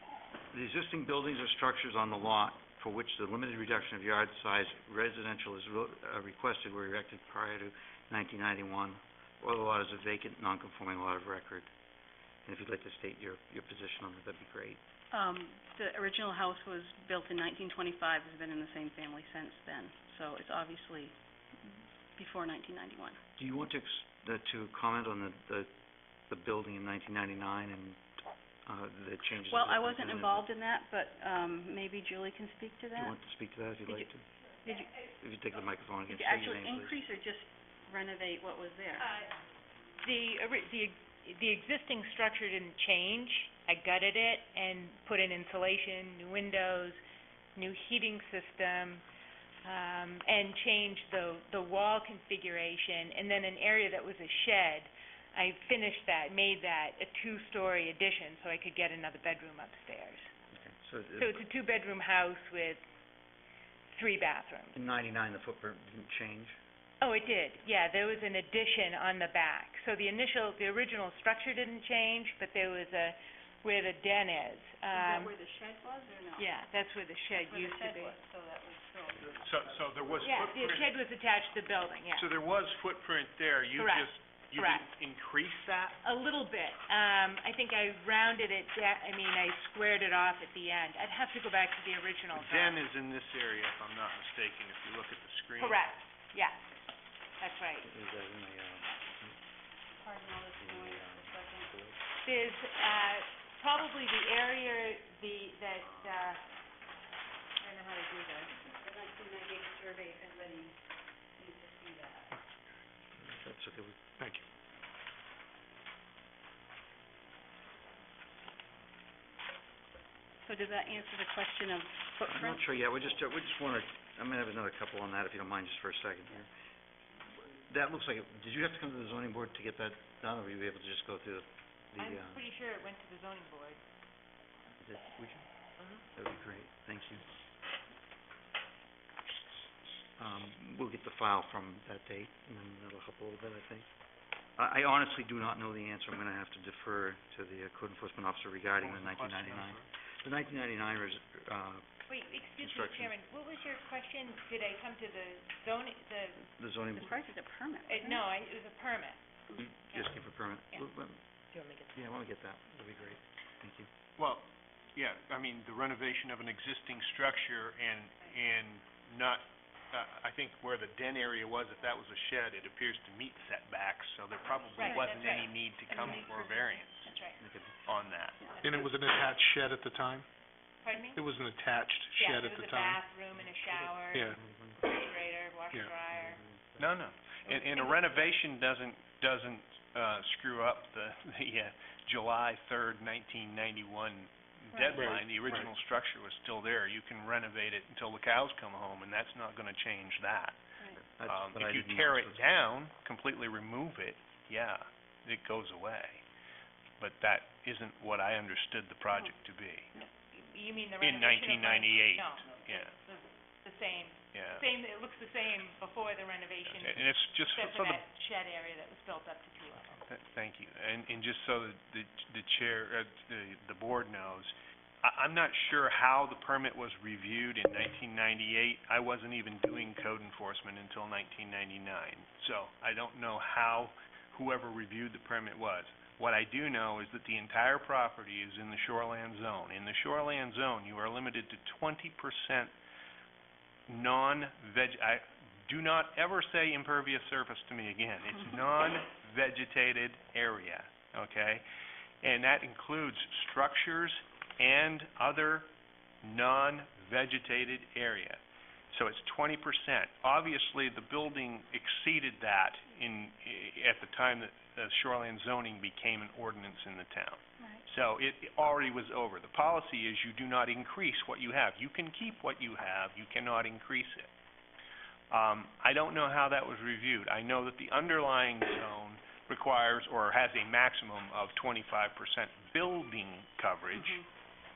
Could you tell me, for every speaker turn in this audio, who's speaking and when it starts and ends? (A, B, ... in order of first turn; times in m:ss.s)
0:00.5-0:11.7 A
0:12.4-0:14.8 A
0:15.1-0:23.2 B
0:23.4-0:25.7 A
0:26.3-0:28.0 A
0:28.7-0:30.5 A
0:29.5-0:33.2 B
0:33.0-0:34.3 A
0:34.6-0:35.2 C
0:34.7-0:35.0 B
0:35.2-0:37.0 A
0:36.1-0:39.0 B
0:39.0-0:39.4 C
0:40.0-0:47.0 C
0:47.5-0:49.0 C
0:49.6-1:00.3 C
1:00.5-1:01.4 A
1:01.2-1:02.8 C
1:03.9-1:04.8 C
1:04.8-1:06.6 A
1:07.0-1:15.3 C
1:14.9-1:16.6 B
1:16.4-1:18.2 C
1:17.3-1:19.3 B
1:19.2-1:20.9 D
1:20.2-1:22.3 C
1:22.2-1:26.0 D
1:23.8-1:24.9 C
1:26.0-1:32.8 C
1:32.3-1:35.9 D
1:35.6-1:36.8 C
1:37.4-1:37.9 C
1:37.8-1:39.4 A
1:39.9-1:41.7 B
1:40.6-1:42.0 A
1:42.2-1:46.4 C
1:47.6-1:48.5 C
1:48.5-1:50.8 B
1:51.4-1:52.3 B
1:53.2-1:54.1 A
2:00.4-2:02.7 B
2:02.3-2:06.5 A
2:07.2-2:12.4 A
2:12.0-2:13.8 C
2:14.8-2:15.5 A
2:16.1-2:17.2 A
2:20.2-2:23.9 A
2:24.6-2:31.9 A
2:28.8-2:29.8 E
2:32.1-2:36.5 C
2:32.6-2:33.1 A
2:36.5-2:37.2 A
2:36.9-2:38.2 B
2:37.8-2:39.3 C
2:39.6-2:41.2 A
2:39.8-2:40.9 C
2:41.5-2:41.9 C
2:41.9-2:43.9 A
2:44.2-2:57.2 D
2:54.8-2:56.3 C
2:54.8-2:55.2 B
2:55.9-2:56.4 B
2:57.1-2:57.4 C
2:57.4-2:57.8 A
2:57.8-2:58.4 D
2:58.4-2:58.7 B
2:58.6-3:00.3 E
3:00.8-3:01.2 C
3:01.1-3:03.0 E
3:02.2-3:04.3 C
3:03.6-3:04.8 A
3:04.8-3:06.4 C
3:06.1-3:06.9 A
3:06.8-3:20.6 D
3:07.4-3:08.3 C
3:14.7-3:15.0 C
3:14.9-3:15.7 E
3:21.0-3:22.4 A
3:21.2-3:26.2 D
3:27.0-3:29.9 D
3:30.0-3:40.0 C
3:31.0-3:32.9 D
3:34.3-3:34.6 D
3:36.7-3:38.0 D
3:40.0-4:02.7 D
4:03.9-4:11.6 D
4:12.2-4:15.7 D
4:16.2-4:18.4 D
4:18.9-4:34.3 D
4:35.3-4:44.2 D
4:43.9-4:44.2 B